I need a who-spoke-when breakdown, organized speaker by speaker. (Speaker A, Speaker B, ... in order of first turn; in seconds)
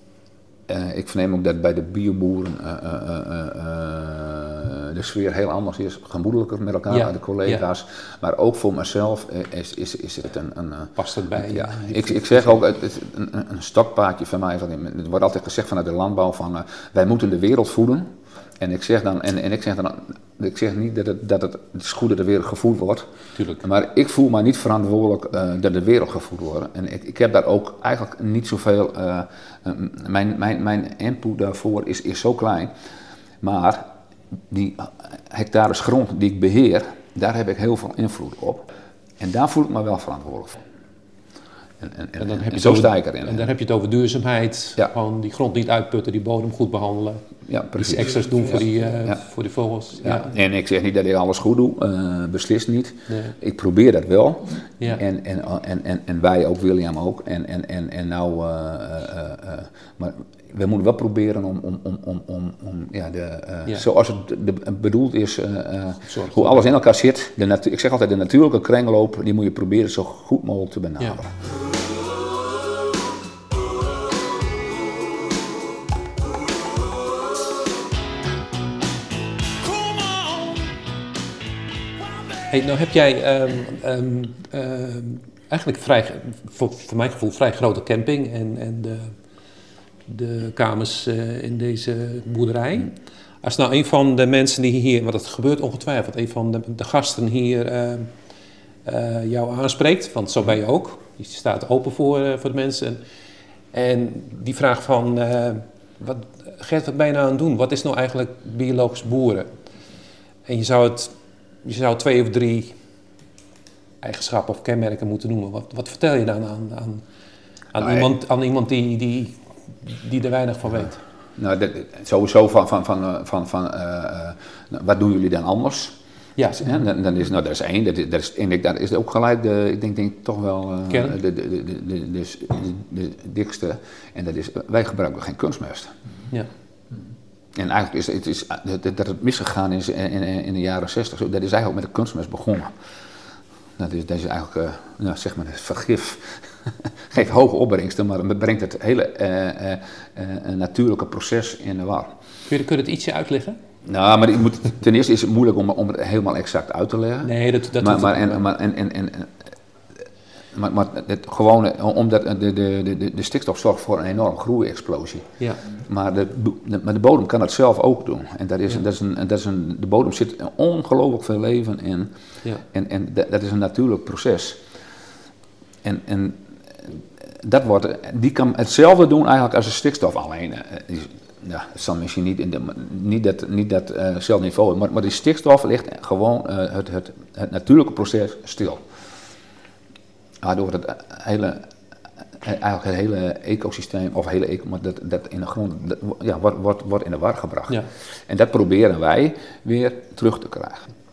Speaker A: 0.7-23.1, 23.6-32.7, 33.4-33.9, 34.5-38.6, 39.2-40.6, 41.8-43.5, 47.5-49.2, 50.0-71.3, 117.8-118.1, 121.3-126.0, 126.6-135.9, 137.5-142.7, 143.8-152.1, 153.8-159.4, 160.5-172.1, 172.7-174.6, 175.8-188.8, 190.4-191.7, 192.4-200.9
Speaker B: 6.9-7.6, 10.9-12.6, 23.3-23.6, 42.2-47.2, 47.8-50.3, 53.1-53.4, 66.1-66.7, 79.8-80.5, 82.4-89.1, 90.1-98.1, 98.8-103.0, 103.7-109.5, 110.5-112.8, 114.0-117.0, 117.7-121.0, 126.3-126.8, 130.9-131.2, 152.5-153.6, 157.2-158.5